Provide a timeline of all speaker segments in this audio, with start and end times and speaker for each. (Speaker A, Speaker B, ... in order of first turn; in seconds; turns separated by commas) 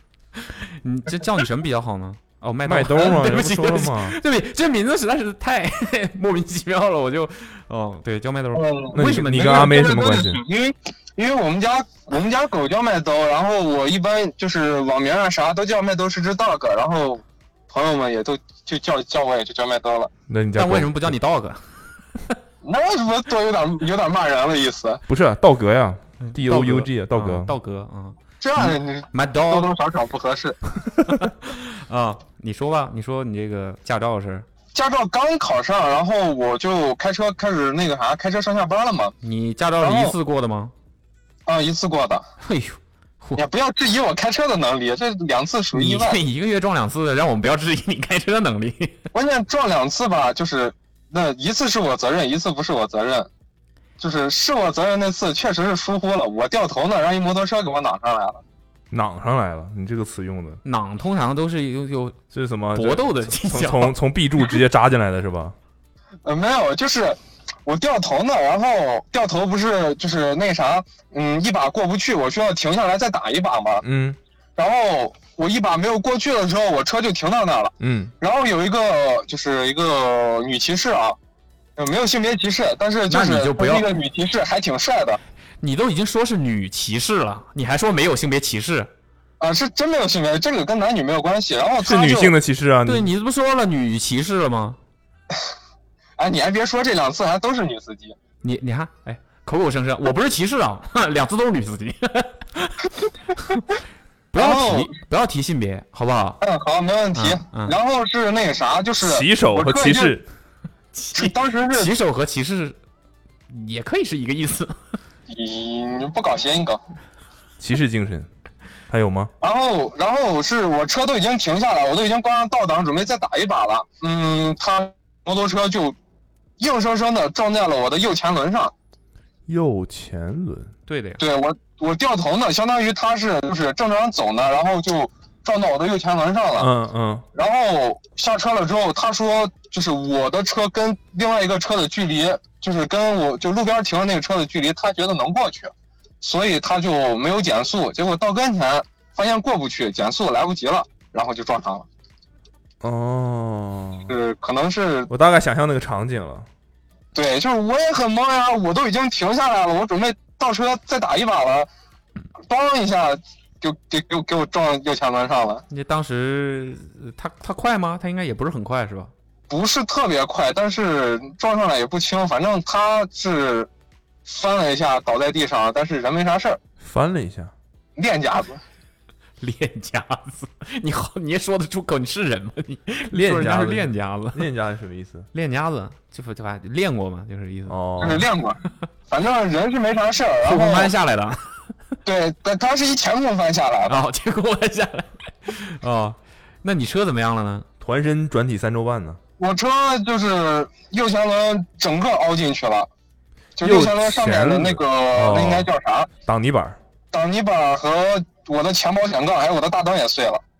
Speaker A: 0.4-9.7, Speaker B: 2.6-4.2, Speaker C: 8.5-20.1, Speaker B: 8.9-10.4, Speaker B: 20.3-21.1, Speaker A: 20.6-22.4, Speaker C: 22.6-25.0, Speaker B: 25.1-27.5, Speaker A: 26.2-29.7, Speaker C: 28.4-30.6, Speaker A: 31.1-34.5, Speaker C: 34.8-39.1, Speaker A: 39.2-40.7, Speaker C: 39.8-40.1, Speaker C: 41.5-42.2, Speaker A: 42.4-43.4, Speaker C: 43.4-46.2, Speaker A: 45.7-49.0, Speaker C: 49.1-53.3, Speaker C: 54.0-58.4, Speaker B: 58.9-60.6, Speaker A: 60.6-62.2, Speaker B: 62.3-65.5, Speaker A: 62.7-64.0, Speaker C: 66.2-73.8, Speaker B: 73.8-74.2, Speaker C: 74.6-81.2, Speaker B: 77.8-78.1, Speaker C: 81.8-85.2, Speaker A: 83.1-83.9, Speaker A: 85.6-88.9, Speaker C: 89.4-92.3, Speaker B: 91.8-93.1, Speaker A: 92.8-94.8, Speaker C: 96.2-98.2, Speaker A: 98.4-103.6, Speaker A: 104.3-106.4, Speaker C: 104.3-105.0, Speaker C: 106.4-110.2, Speaker A: 107.1-107.8, Speaker B: 109.0-110.2, Speaker A: 110.9-112.8, Speaker C: 111.1-111.9, Speaker A: 113.5-114.8, Speaker C: 115.3-116.8, Speaker B: 117.6-118.3, Speaker B: 118.9-119.3, Speaker C: 119.4-126.0, Speaker C: 126.6-128.7, Speaker B: 129.5-130.7, Speaker A: 130.9-131.2, Speaker C: 131.2-136.7, Speaker B: 136.6-137.2, Speaker C: 137.3-151.9, Speaker B: 152.8-154.1, Speaker C: 154.1-155.1, Speaker B: 155.1-156.5, Speaker C: 157.1-161.7, Speaker C: 162.5-165.6, Speaker A: 165.7-169.1, Speaker C: 169.5-173.7, Speaker C: 174.2-176.6, Speaker B: 176.8-177.5, Speaker C: 177.9-178.6, Speaker A: 179.4-184.5, Speaker B: 183.1-185.3, Speaker A: 185.3-188.2, Speaker B: 187.7-188.3, Speaker C: 188.0-190.9, Speaker A: 190.4-191.7, Speaker C: 192.1-194.0, Speaker A: 193.9-197.7, Speaker B: 197.8-199.2, Speaker C: 199.4-202.9, Speaker C: 203.6-206.1, Speaker B: 203.6-206.8, Speaker C: 207.1-210.4